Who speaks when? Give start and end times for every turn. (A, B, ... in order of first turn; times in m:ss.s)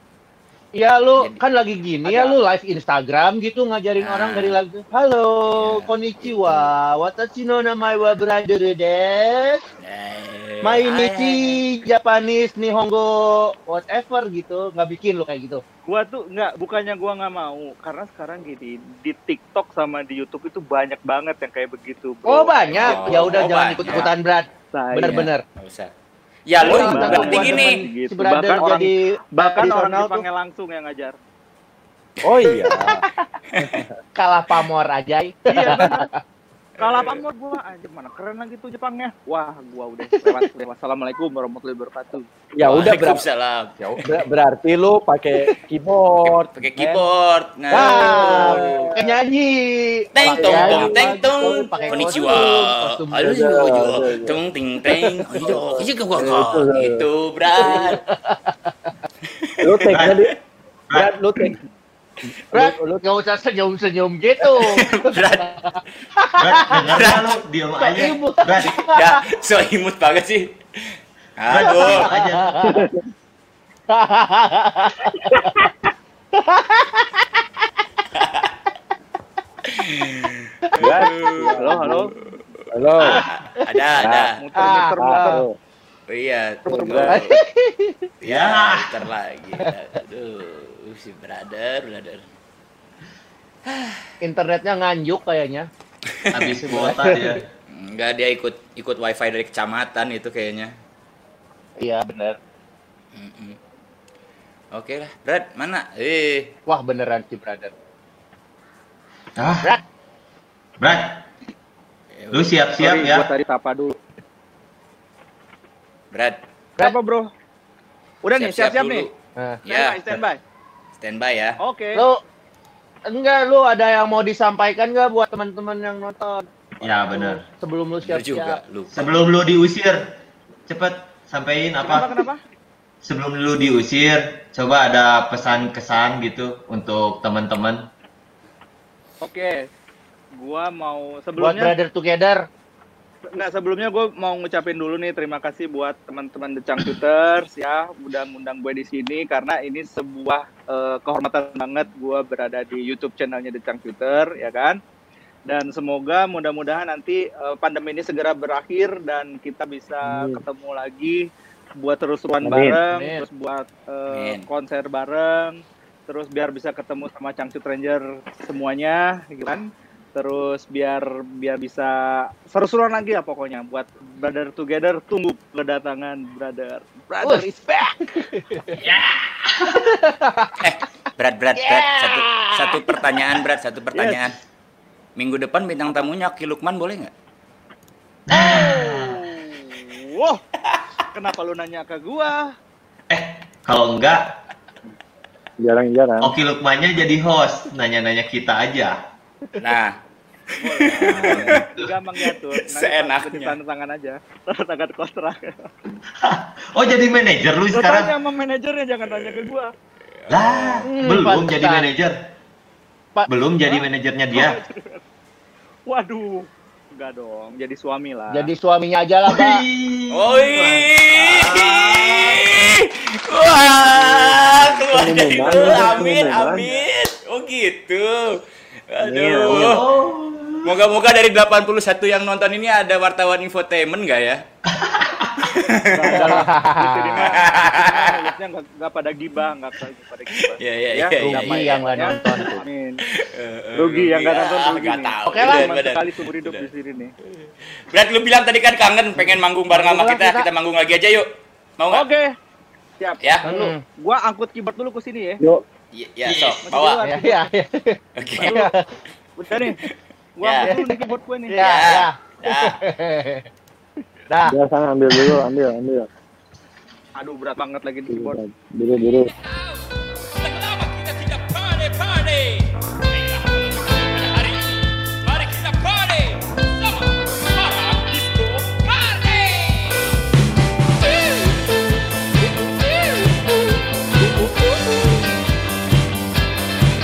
0:00.8-0:09.6 A
0:02.0-0:02.4 B
0:04.0-0:04.6 C
0:05.6-0:06.7 C
0:09.8-0:11.6 C
0:10.6-0:15.6 A
0:15.9-0:24.1 B
0:22.3-0:25.4 A
0:22.7-0:24.1 C
0:24.7-0:25.3 B
0:25.6-0:25.9 C
0:26.5-0:27.9 C
0:26.6-0:31.2 B
0:26.6-0:30.2 A
0:32.2-0:33.0 D
0:33.6-0:33.9 D
0:34.2-0:36.1 A
0:35.5-0:36.1 B
0:36.8-0:42.3 B
0:36.8-0:37.2 C
0:42.6-0:43.2 D
0:42.6-0:44.0 C
0:43.9-0:47.0 D
0:46.2-0:48.9 C
0:47.7-0:53.4 A
0:47.8-0:49.1 D
0:50.2-0:58.0 C
0:50.4-0:50.9 E
0:50.4-0:51.5 D
0:53.2-0:54.4 D
0:55.0-0:57.0 D
0:57.7-0:58.9 A
0:59.4-1:00.3 C
0:59.6-1:00.3 D
0:59.9-1:00.2 F
1:00.9-1:01.6 F
1:00.9-1:01.6 D
1:02.5-1:03.0 D
1:02.5-1:06.9 A
1:04.6-1:05.5 C
1:06.4-1:08.9 F
1:06.9-1:07.4 C
1:07.8-1:09.2 A
1:08.8-1:10.5 C
1:11.4-1:12.1 C
1:11.5-1:12.6 F
1:11.7-1:12.8 A
1:12.6-1:12.9 E
1:13.9-1:15.6 A
1:16.4-1:17.2 A
1:18.2-1:18.5 C
1:19.6-1:21.6 C
1:20.8-1:22.0 E
1:21.5-1:22.1 B
1:21.6-1:21.9 D
1:22.7-1:23.2 D
1:23.0-1:24.4 C
1:24.0-1:25.6 E
1:24.3-1:25.5 B
1:24.6-1:25.4 A
1:26.1-1:27.4 C
1:26.6-1:27.2 B
1:26.7-1:27.0 E
1:27.0-1:28.1 A
1:28.2-1:29.0 F
1:28.2-1:32.2 C
1:33.7-1:34.0 C
1:34.2-1:35.7 A
1:36.1-1:36.6 C
1:36.3-1:37.4 F
1:36.7-1:37.4 A
1:37.7-1:40.7 C
1:41.8-1:42.4 A
1:43.2-1:43.6 C
1:44.7-1:46.5 C
1:46.7-1:47.7 A
1:49.4-1:49.7 F
1:50.8-1:51.2 F
1:52.1-1:52.6 C
1:52.3-1:53.3 F
1:52.8-1:54.0 B
1:56.1-1:56.4 C
1:56.8-1:57.3 B
1:58.2-1:59.1 B
1:58.4-1:59.1 C
1:59.7-2:00.0 C
1:59.7-2:00.4 B
2:01.0-2:01.6 C
2:01.6-2:02.0 B
2:03.1-2:06.5 A
2:06.8-2:07.4 F
2:07.1-2:08.6 A
2:08.0-2:08.9 C
2:08.9-2:10.0 F
2:10.7-2:12.2 F
2:11.8-2:12.4 B
2:13.0-2:17.9 F
2:19.2-2:19.7 B
2:20.4-2:21.8 B
2:21.4-2:22.4 A
2:23.3-2:34.8 B
2:35.5-2:41.3 B
2:40.0-2:40.4 E
2:41.8-2:58.2 B
2:42.4-2:42.8 E
2:42.5-2:43.2 A
2:44.1-2:44.5 C
2:57.2-2:58.8 A
2:58.9-2:59.8 F
2:59.7-3:00.6 A
3:00.6-3:04.4 C
3:01.6-3:03.0 A
3:03.9-3:04.3 B
3:05.2-3:07.1 C
3:08.3-3:09.3 F
3:08.4-3:10.4 B
3:11.1-3:12.5 B
3:13.1-3:14.3 F
3:15.6-3:16.3 E
3:16.2-3:19.0 F
3:19.6-3:20.0 C
3:20.6-3:21.7 C
3:20.6-3:25.7 B
3:21.1-3:21.9 F
3:22.6-3:23.6 C
3:26.1-3:28.2 F
3:27.7-3:29.7 B
3:30.2-3:30.9 C
3:30.3-3:32.2 F
3:30.8-3:31.9 A
3:33.3-3:34.6 F
3:34.3-3:35.0 B
3:35.9-3:38.5 B
3:38.3-3:39.6 A
3:39.3-3:42.5 F
3:40.1-3:48.4 C
3:44.0-3:44.6 F
3:44.9-3:46.6 E
3:45.7-3:46.7 B
3:48.9-3:49.8 C
3:49.0-3:49.8 E
3:49.5-3:50.8 F
3:50.6-3:54.4 C
3:54.7-3:55.5 F
3:55.4-3:56.5 C
3:55.9-4:03.0 B
3:56.1-3:57.3 A
3:57.2-3:58.3 C
4:00.4-4:02.5 C
4:01.2-4:02.7 A
4:03.1-4:06.7 C
4:03.7-4:07.1 B
4:05.3-4:05.7 A
4:07.3-4:11.3 C
4:09.7-4:10.5 A
4:11.8-4:12.1 C
4:11.9-4:12.3 B
4:13.0-4:15.4 B
4:13.4-4:13.8 A
4:15.9-4:17.0 C
4:16.3-4:16.6 F
4:16.6-4:17.5 B
4:17.0-4:18.9 A
4:18.2-4:18.7 C
4:19.4-4:19.8 B
4:20.4-4:21.6 B
4:20.4-4:20.7 C
4:20.6-4:23.5 A
4:21.6-4:22.8 C
4:24.3-4:24.6 A
4:24.4-4:26.1 E
4:27.2-4:28.4 B
4:28.1-4:29.3 E
4:29.3-4:29.8 G
4:30.4-4:40.1 G
4:41.0-4:41.6 G
4:42.8-4:43.4 G
4:44.4-4:44.8 G